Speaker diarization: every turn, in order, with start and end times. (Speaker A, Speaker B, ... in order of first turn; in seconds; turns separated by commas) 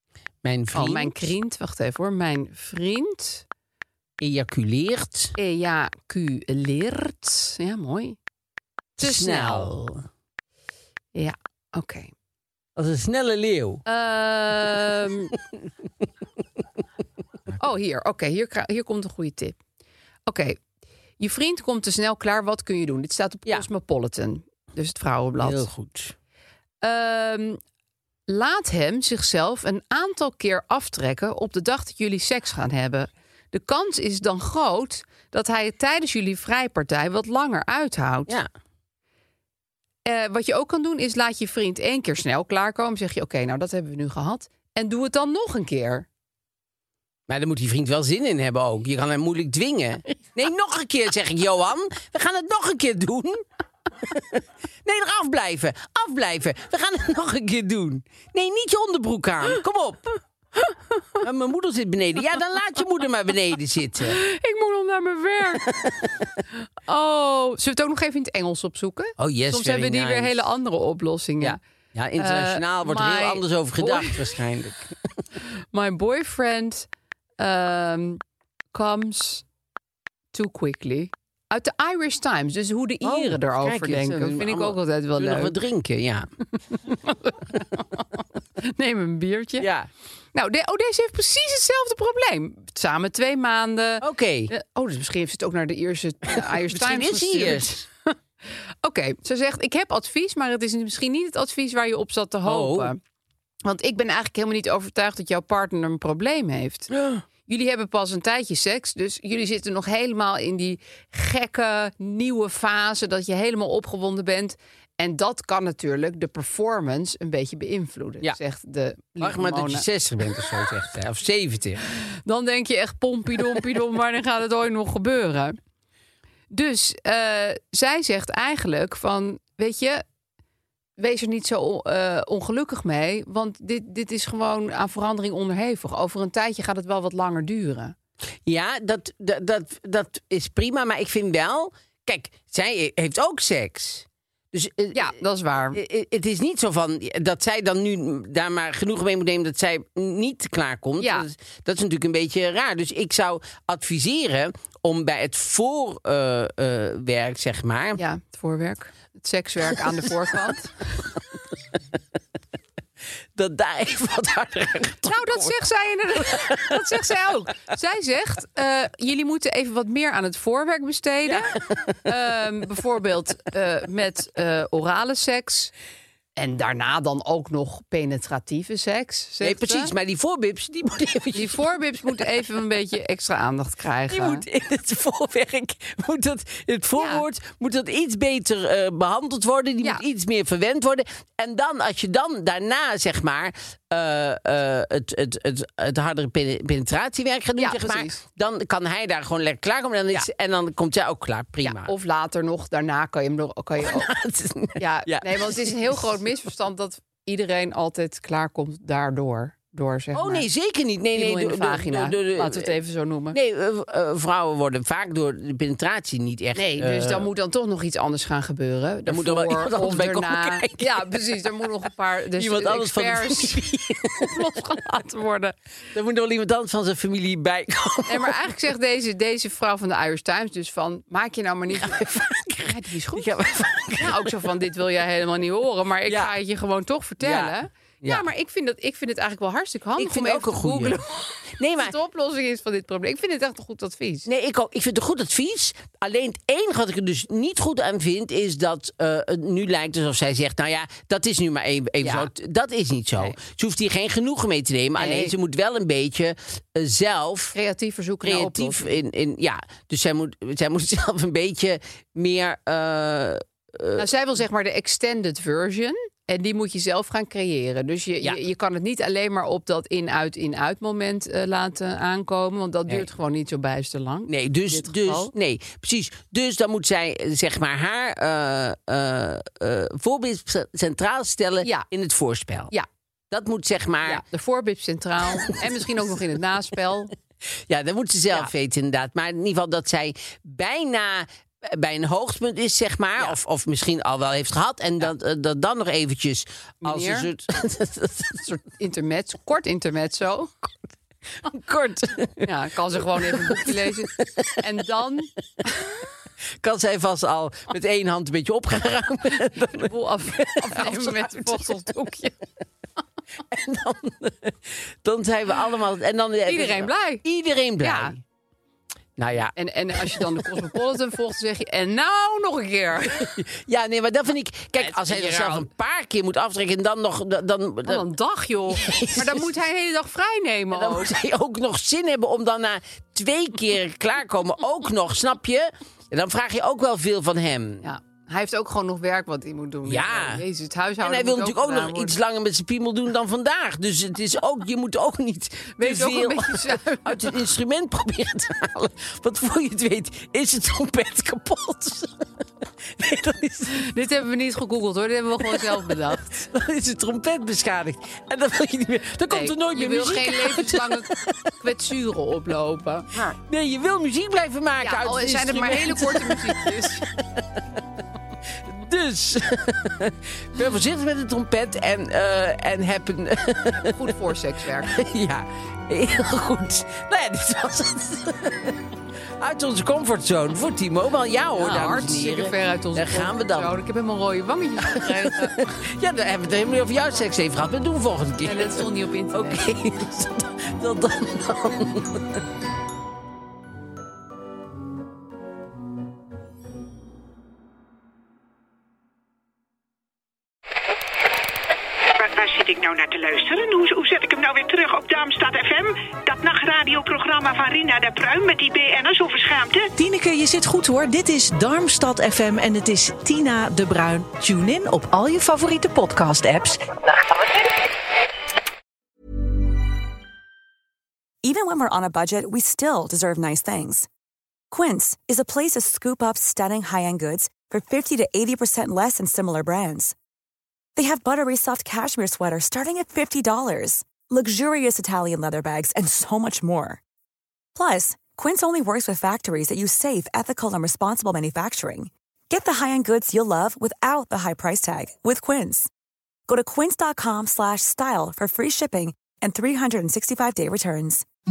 Speaker A: 0.4-1.3, Speaker B: 0.7-3.5, Speaker A: 4.2-5.3, Speaker B: 5.4-8.2, Speaker A: 9.0-10.0, Speaker B: 9.0-9.7, Speaker B: 11.1-12.1, Speaker A: 12.8-13.8, Speaker B: 13.8-15.3, Speaker B: 17.6-19.6, Speaker B: 20.3-20.6, Speaker B: 21.2-25.7, Speaker A: 25.4-26.1, Speaker B: 26.8-27.6, Speaker B: 28.3-38.4, Speaker B: 40.0-46.1, Speaker A: 47.3-53.4, Speaker A: 54.0-60.2, Speaker A: 61.2-64.2, Speaker B: 64.0-65.7, Speaker A: 65.6-66.2, Speaker B: 66.6-71.6, Speaker A: 69.2-70.4, Speaker A: 71.4-75.2, Speaker B: 72.2-74.3, Speaker B: 75.7-76.9, Speaker B: 77.4-78.2, Speaker B: 78.7-79.4, Speaker B: 80.3-85.5, Speaker A: 83.0-86.3, Speaker B: 86.7-89.7, Speaker A: 89.6-89.9, Speaker B: 90.3-98.1, Speaker A: 94.0-94.5, Speaker A: 96.3-97.8, Speaker B: 98.8-103.0, Speaker A: 102.4-102.9, Speaker B: 103.6-106.9, Speaker A: 106.9-107.2, Speaker B: 107.5-119.8, Speaker A: 119.2-121.8, Speaker B: 122.2-125.6, Speaker B: 126.5-130.0, Speaker B: 131.0-137.9, Speaker A: 138.4-145.1, Speaker B: 144.9-145.8, Speaker A: 145.7-158.0, Speaker B: 151.0-151.3, Speaker B: 158.0-161.0, Speaker A: 163.3-165.6, Speaker B: 165.1-175.7, Speaker A: 166.1-167.0, Speaker A: 171.3-172.1, Speaker B: 176.4-179.9, Speaker A: 179.4-182.2, Speaker B: 181.3-184.4, Speaker A: 184.1-201.9, Speaker B: 186.9-187.2, Speaker B: 197.6-198.2, Speaker B: 201.6-204.1, Speaker A: 203.8-206.2, Speaker B: 204.8-210.5, Speaker A: 210.1-212.7, Speaker B: 211.1-213.4, Speaker A: 213.3-217.3, Speaker B: 216.6-225.5, Speaker A: 219.1-221.1, Speaker A: 222.3-224.4, Speaker A: 225.9-228.3, Speaker B: 228.1-232.1, Speaker A: 231.7-234.4, Speaker B: 232.6-233.4, Speaker B: 234.0-244.3, Speaker A: 236.1-236.3, Speaker A: 237.2-238.2, Speaker A: 240.0-241.0, Speaker A: 241.6-241.9, Speaker A: 244.2-257.5, Speaker B: 252.0-252.3, Speaker B: 254.9-255.3, Speaker B: 257.5-259.0, Speaker A: 258.2-264.1, Speaker B: 263.9-275.3, Speaker A: 274.3-282.7, Speaker A: 283.3-284.2, Speaker B: 284.0-287.1, Speaker A: 285.4-285.7, Speaker A: 287.7-298.4, Speaker B: 296.8-297.3, Speaker B: 298.4-300.7, Speaker A: 301.4-304.5, Speaker B: 302.4-305.9, Speaker A: 306.6-311.8, Speaker B: 309.6-312.4, Speaker A: 313.5-318.2, Speaker B: 316.4-317.2, Speaker B: 317.8-318.1, Speaker A: 319.2-320.6, Speaker B: 319.6-323.3, Speaker A: 323.2-328.1, Speaker B: 324.8-325.7, Speaker B: 327.8-331.1, Speaker A: 328.7-329.5, Speaker A: 330.7-337.8, Speaker B: 337.8-342.2, Speaker A: 339.8-340.4, Speaker A: 341.0-353.9, Speaker B: 345.8-347.4, Speaker B: 353.7-356.4, Speaker A: 355.4-361.5, Speaker B: 359.3-363.3, Speaker A: 363.3-367.6, Speaker B: 364.8-367.0, Speaker A: 368.6-374.1, Speaker B: 373.8-375.0, Speaker A: 374.8-378.8, Speaker A: 379.4-383.7, Speaker B: 381.6-385.6, Speaker A: 384.8-392.4, Speaker B: 388.4-389.7, Speaker C: 402.1-409.9, Speaker D: 409.9-417.4, Speaker E: 421.4-424.1, Speaker E: 424.7-430.1, Speaker E: 430.9-437.0, Speaker E: 437.7-445.9, Speaker E: 446.5-451.2